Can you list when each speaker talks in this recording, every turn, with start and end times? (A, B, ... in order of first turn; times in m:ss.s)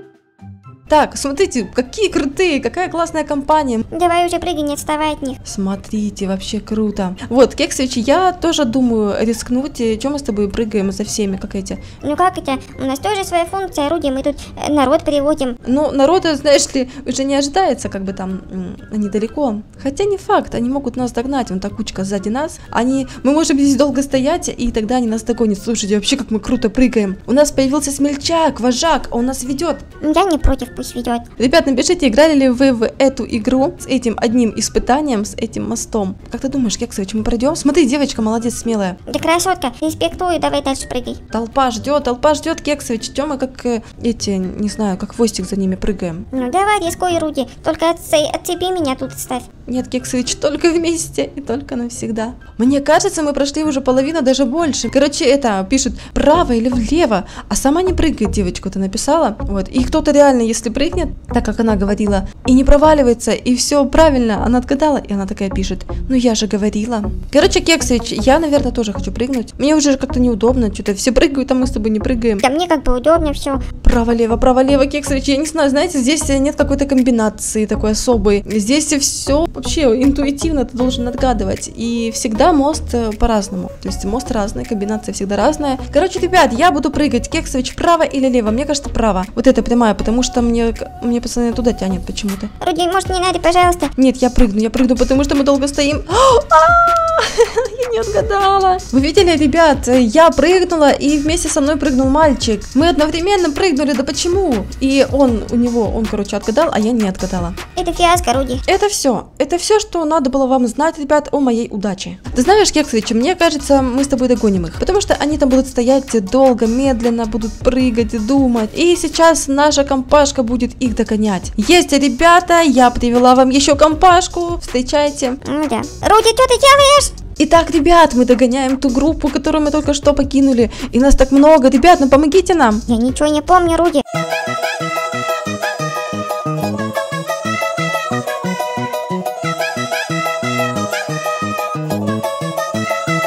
0:00.9-0:03.8 A
0:03.9-0:05.4 B
0:05.4-0:11.8 A
0:12.0-0:15.6 B
0:15.6-0:29.8 A
0:30.0-0:31.2 B
0:31.4-0:39.0 A
0:39.1-0:41.2 B
0:41.3-0:46.3 A
0:46.3-0:49.5 B
0:49.7-1:12.4 A
1:12.4-1:13.6 B
1:13.8-1:32.5 A
1:32.6-1:33.9 B
1:34.0-1:47.6 A
1:47.8-1:48.6 B
1:48.6-2:05.4 A
2:05.4-2:07.2 B
2:07.4-2:12.8 A
2:12.9-2:14.0 B